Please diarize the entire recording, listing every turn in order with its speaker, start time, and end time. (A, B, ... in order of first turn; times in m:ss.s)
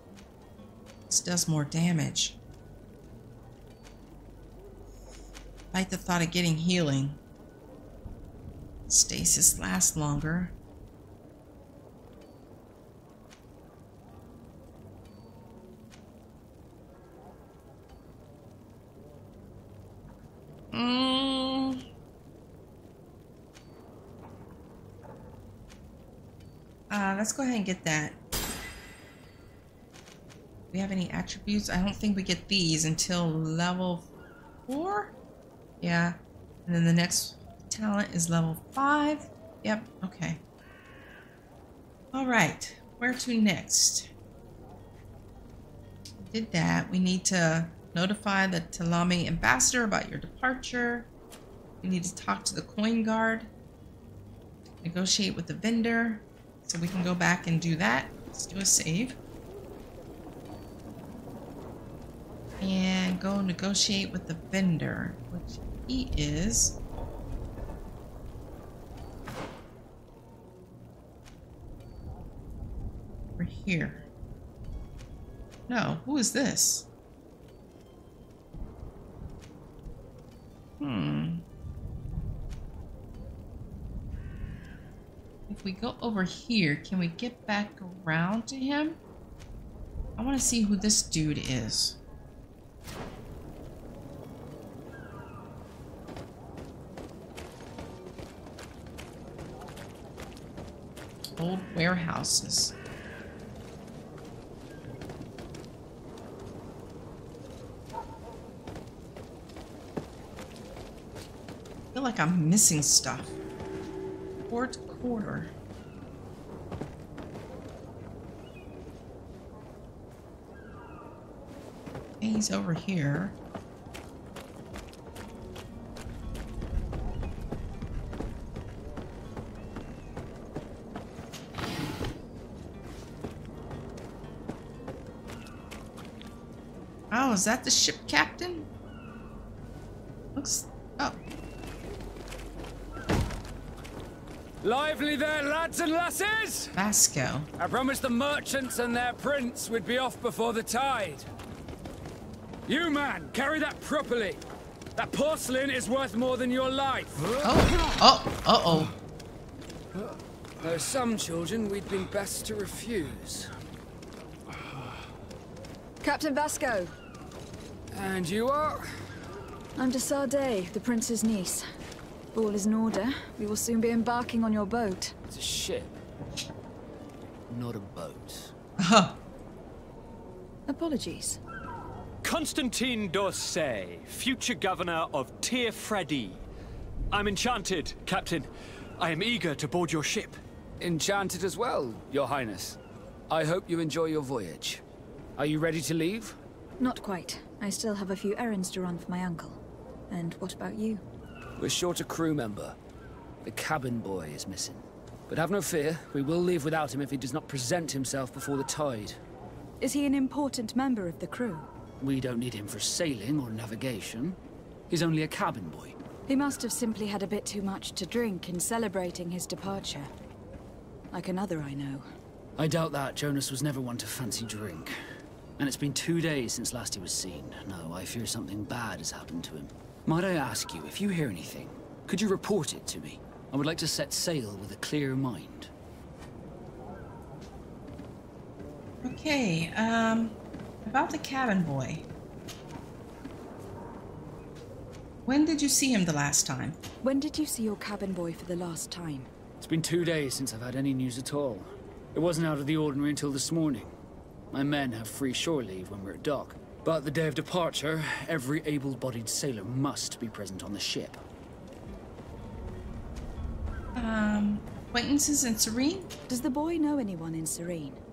0:01.1-0:02.4 A
0:05.7-0:07.2 A
0:08.9-0:10.5 A
0:20.7-0:21.8 A
0:26.9-0:28.2 A
0:30.7-0:34.1 A
0:34.7-0:35.1 A
0:35.8-0:40.4 A
0:42.1-0:44.1 A
0:46.2-0:51.1 A
0:51.8-0:53.5 A
0:54.8-0:59.2 A
1:02.6-1:06.8 A
1:13.4-1:14.0 A
1:15.7-1:16.9 A
1:20.8-1:21.4 A
1:25.5-1:29.0 A
1:30.2-1:32.0 A
1:41.4-1:42.7 A
1:51.9-1:53.4 A
1:54.5-1:55.5 A
2:02.2-2:03.3 A
2:17.1-2:18.7 A
2:20.4-2:21.2 A
2:24.6-2:26.7 B
2:26.7-2:27.5 A
2:27.6-2:31.3 B
2:32.6-2:34.4 B
2:34.9-2:37.8 B
2:37.4-2:38.9 A
2:39.9-2:43.5 B
2:46.0-2:46.9 C
2:47.9-2:48.8 B
2:49.8-2:51.6 C
2:52.3-2:55.1 C
2:55.3-2:56.0 B
2:57.5-2:58.5 B
2:58.8-2:59.2 A
3:00.7-3:01.4 C
3:02.2-3:06.4 D
3:07.1-3:10.4 D
3:10.8-3:14.8 B
3:15.4-3:16.4 B
3:16.8-3:21.0 C
3:21.6-3:22.8 B
3:23.4-3:29.2 B
3:29.8-3:31.7 C
3:32.0-3:34.4 B
3:34.9-3:36.0 B
3:36.3-3:40.1 C
3:41.1-3:42.0 C
3:42.6-3:44.9 B
3:45.6-3:55.7 B
3:59.0-4:02.0 A
4:05.2-4:06.8 A
4:07.0-4:09.3 C
4:09.6-4:13.9 B
4:14.5-4:21.2 B
4:24.0-4:26.1 A
4:26.3-4:28.0 C